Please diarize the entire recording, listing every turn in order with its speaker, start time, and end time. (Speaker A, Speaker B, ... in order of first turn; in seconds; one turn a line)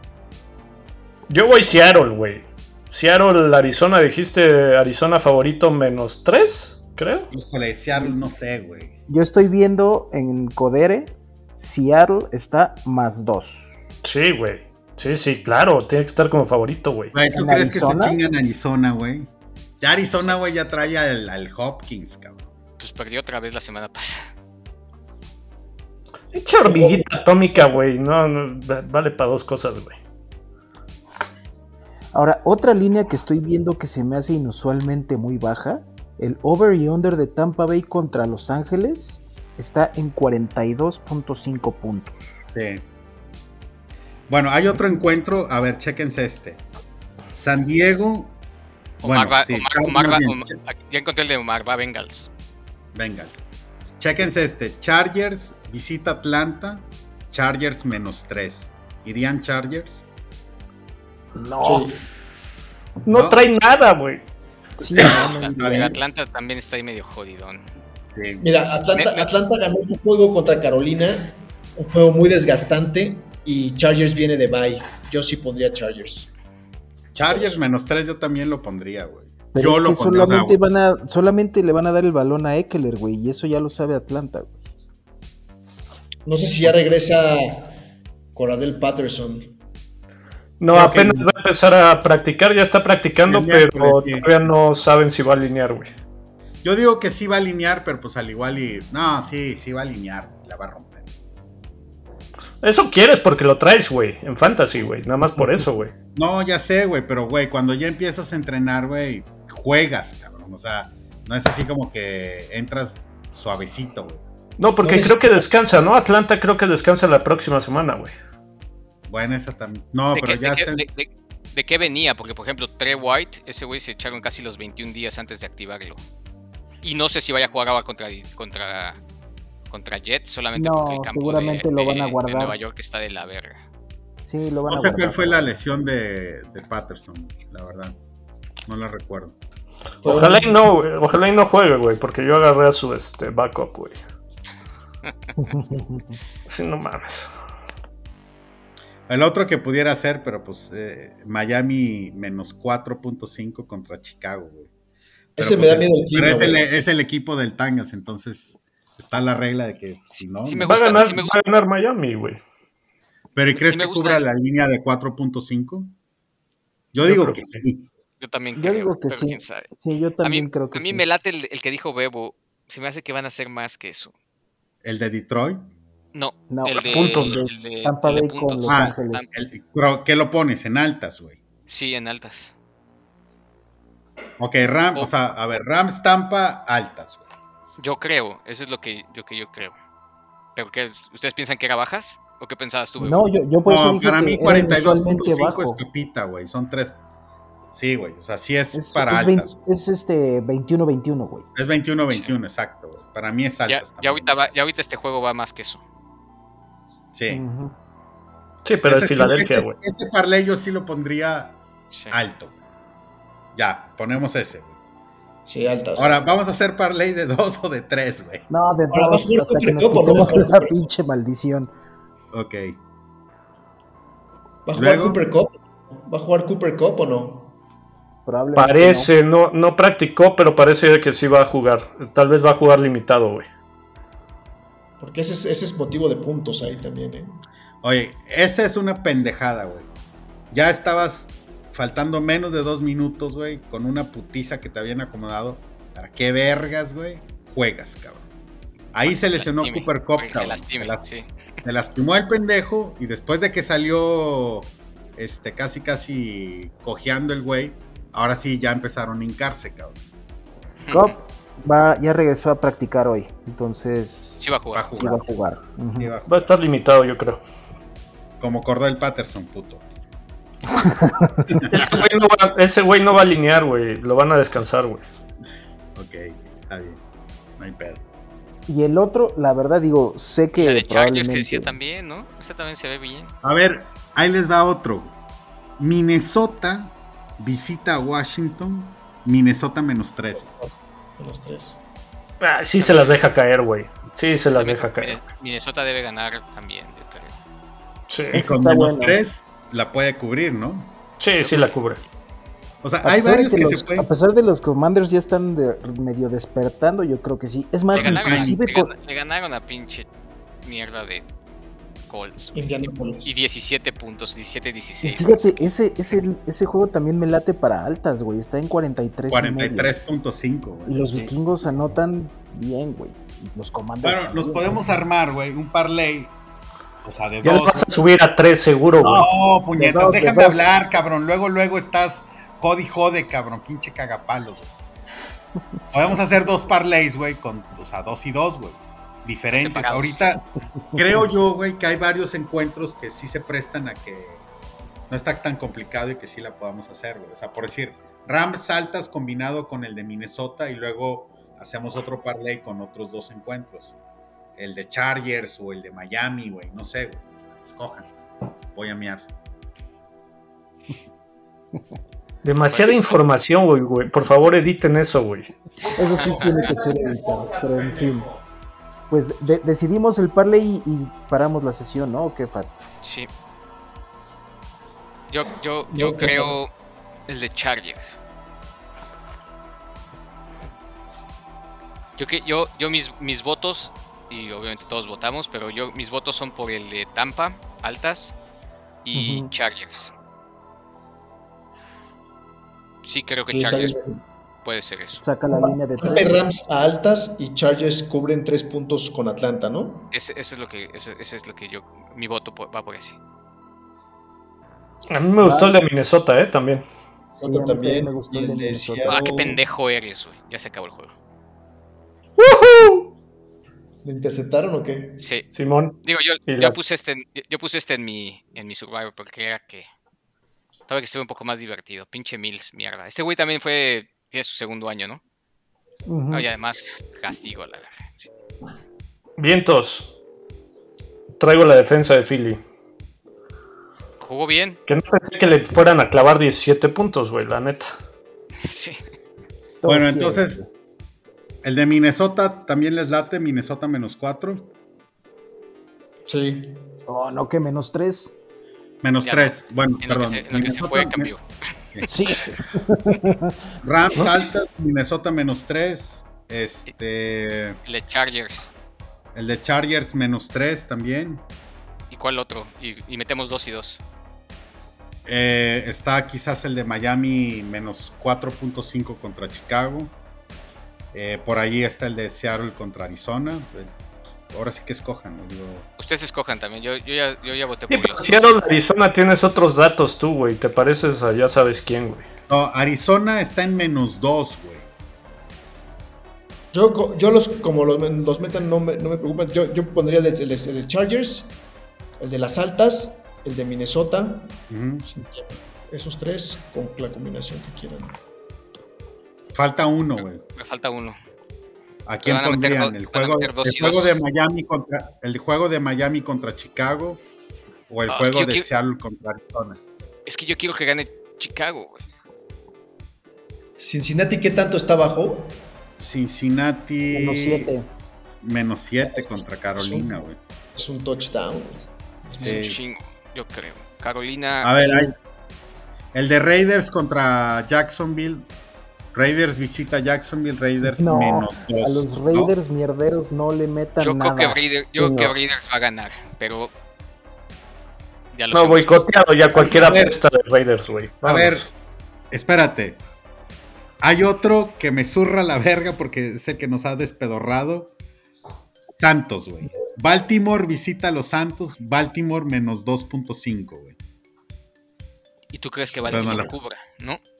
Speaker A: 1.3-7.3
Speaker B: 7.3-8.9
Speaker C: 9.1-13.7
Speaker A: 14.0-17.1
Speaker B: 17.1-22.5
Speaker C: 17.3-18.2
Speaker D: 22.8-24.3
Speaker A: 26.3-30.0
Speaker E: 26.6-27.8
Speaker C: 32.1-42.2
Speaker B: 42.5-42.8
Speaker B: 44.3-46.6
Speaker B: 47.3-48.4
Speaker D: 49.0-52.3
Speaker B: 49.0-50.6
Speaker B: 52.9-53.4
Speaker B: 54.0-60.0
Speaker C: 61.3-62.0
Speaker E: 61.6-62.0
Speaker A: 63.0-64.2
Speaker B: 63.1-63.4
Speaker C: 64.8-66.0
Speaker D: 65.4-67.7
Speaker B: 65.6-65.9
Speaker B: 68.1-68.4
Speaker E: 68.4-76.3
Speaker D: 68.9-69.3
Speaker B: 77.1-80.6
Speaker E: 77.3-77.6
Speaker C: 79.5-84.5
Speaker E: 86.2-87.8
Speaker E: 88.3-89.5
Speaker A: 90.6-95.9
Speaker B: 90.8-91.0
Speaker E: 90.8-91.0
Speaker B: 93.2-94.3
Speaker B: 96.6-101.1
Speaker A: 102.6-105.9
Speaker B: 106.1-114.2
Speaker A: 114.6-118.2
Speaker E: 114.8-115.5
Speaker B: 119.1-120.8
Speaker D: 120.1-126.0
Speaker D: 126.8-129.0
Speaker D: 129.7-133.6
Speaker C: 130.5-132.6
Speaker C: 134.2-135.5
Speaker B: 134.6-138.0
Speaker B: 138.7-139.3
Speaker E: 140.0-140.8
Speaker A: 140.0-144.0
Speaker C: 145.4-146.2
Speaker A: 146.5-147.3
Speaker B: 149.1-154.7
Speaker B: 155.3-160.7
Speaker E: 155.4-156.6
Speaker D: 160.4-161.4
Speaker A: 160.6-162.4
Speaker B: 163.3-165.9
Speaker D: 163.5-164.2
Speaker B: 166.9-167.9
Speaker A: 167.0-167.6
Speaker D: 168.2-169.7
Speaker C: 168.6-171.0
Speaker D: 170.2-174.1
Speaker B: 174.8-175.6
Speaker D: 176.1-179.3
Speaker C: 176.5-179.3
Speaker A: 176.8-177.4
Speaker B: 178.7-181.4
Speaker D: 181.7-182.5
Speaker B: 184.4-187.3
Speaker D: 187.8-189.7
Speaker D: 190.6-193.2
Speaker C: 193.0-195.8
Speaker B: 193.7-197.0
Speaker B: 197.7-199.5
Speaker C: 198.7-201.5
Speaker B: 201.6-204.3
Speaker D: 203.7-205.8
Speaker B: 207.1-207.4
Speaker C: 207.3-207.7
Speaker A: 208.6-209.8
Speaker B: 208.8-211.6
Speaker D: 211.9-212.2
Speaker B: 212.1-212.5
Speaker B: 213.5-214.8
Speaker E: 215.4-216.2
Speaker B: 215.9-218.4
Speaker C: 218.5-221.7
Speaker E: 218.9-220.8
Speaker B: 222.3-222.8
Speaker E: 224.7-227.5
Speaker B: 224.7-225.2
Speaker C: 228.2-229.1
Speaker A: 228.5-233.4
Speaker E: 235.0-237.4
Speaker B: 237.8-239.9
Speaker B: 240.5-248.3
Speaker B: 248.9-251.0
Speaker D: 249.1-251.3
Speaker B: 251.6-260.0
Speaker D: 260.8-261.1
Speaker C: 260.9-264.4
Speaker D: 264.4-264.9
Speaker B: 264.7-265.3
Speaker C: 264.9-266.1
Speaker B: 265.9-266.5
Speaker A: 266.3-267.4
Speaker B: 268.4-269.8
Speaker C: 270.8-271.6
Speaker B: 271.5-272.0
Speaker A: 271.7-275.0
Speaker B: 275.9-277.0
Speaker B: 277.6-278.0
Speaker C: 278.7-281.7
Speaker D: 280.6-283.3
Speaker B: 283.4-285.1
Speaker B: 285.8-290.5
Speaker E: 290.4-291.8
Speaker A: 292.4-295.2
Speaker D: 292.8-293.2
Speaker D: 294.6-297.3
Speaker A: 298.1-298.4
Speaker B: 298.3-300.9
Speaker C: 298.3-299.2
Speaker A: 301.2-302.0
Speaker D: 301.4-302.0
Speaker B: 302.8-304.1
Speaker C: 303.0-308.9
Speaker D: 307.9-310.1
Speaker B: 307.9-308.5
Speaker D: 310.6-311.2
Speaker D: 312.1-315.7
Speaker E: 312.5-313.3
Speaker C: 315.0-319.9
Speaker B: 319.3-321.3
Speaker C: 320.9-324.8
Speaker B: 324.0-326.3
Speaker B: 327.0-327.9
Speaker A: 327.4-329.2
Speaker B: 329.0-334.7
Speaker C: 329.1-330.6
Speaker B: 335.9-340.4
Speaker D: 339.5-340.3
Speaker B: 340.9-344.4
Speaker B: 345.1-353.9
Speaker B: 354.6-358.1
Speaker B: 358.7-359.3
Speaker A: 362.4-365.5
Speaker D: 362.6-363.0
Speaker C: 365.9-368.3
Speaker D: 366.0-366.7
Speaker E: 366.7-367.3
Speaker C: 369.1-372.7
Speaker D: 373.0-373.3
Speaker D: 375.3-376.7
Speaker C: 375.9-376.5
Speaker D: 377.3-378.2
Speaker D: 382.2-388.3
Speaker D: 389.0-390.1
Speaker C: 389.1-389.5
Speaker D: 393.0-394.0
Speaker E: 393.5-394.2
Speaker D: 394.6-395.2
Speaker C: 395.2-396.4
Speaker E: 395.5-400.1
Speaker D: 400.1-403.2
Speaker A: 405.1-406.8
Speaker C: 405.4-405.8
Speaker E: 407.3-409.6
Speaker C: 407.4-409.2
Speaker D: 409.1-411.1
Speaker A: 412.4-413.1
Speaker E: 414.0-415.2
Speaker D: 415.2-415.5
Speaker A: 415.5-416.8
Speaker D: 416.0-419.9
Speaker D: 420.9-425.2
Speaker C: 426.1-426.5
Speaker D: 426.3-428.3
Speaker A: 429.4-430.1
Speaker A: 431.4-432.6
Speaker D: 434.2-434.8
Speaker A: 434.9-437.9
Speaker D: 438.6-439.0
Speaker C: 439.8-440.7
Speaker B: 439.9-440.6
Speaker B: 441.6-444.7
Speaker E: 446.2-446.8
Speaker C: 447.1-448.3
Speaker B: 449.0-451.3
Speaker D: 449.2-451.4
Speaker C: 452.0-453.6
Speaker B: 453.8-457.8
Speaker D: 457.8-458.7
Speaker B: 459.3-461.4
Speaker D: 462.1-464.0
Speaker B: 465.2-470.1
Speaker B: 471.1-475.9
Speaker D: 476.0-478.7
Speaker A: 477.9-482.2
Speaker B: 482.5-484.9
Speaker E: 486.7-491.5
Speaker E: 492.2-498.2
Speaker B: 494.7-495.1
Speaker B: 499.5-500.4
Speaker D: 500.5-501.1
Speaker B: 502.1-507.2
Speaker D: 502.2-504.1
Speaker B: 507.9-509.8
Speaker D: 508.1-508.7
Speaker D: 510.2-512.0
Speaker E: 513.8-515.6
Speaker B: 516.0-517.7
Speaker C: 517.1-517.9
Speaker B: 518.4-520.4
Speaker E: 519.0-522.6
Speaker B: 522.4-522.8
Speaker D: 522.4-524.7
Speaker B: 524.6-525.1
Speaker B: 526.1-528.5
Speaker B: 529.1-532.5
Speaker C: 530.8-535.3
Speaker D: 534.0-536.7
Speaker D: 538.3-539.8
Speaker A: 538.5-541.6
Speaker B: 539.5-540.1
Speaker B: 541.2-541.7
Speaker B: 542.3-543.0
Speaker B: 544.0-547.9
Speaker B: 549.0-554.0
Speaker D: 555.5-557.2
Speaker B: 556.1-556.5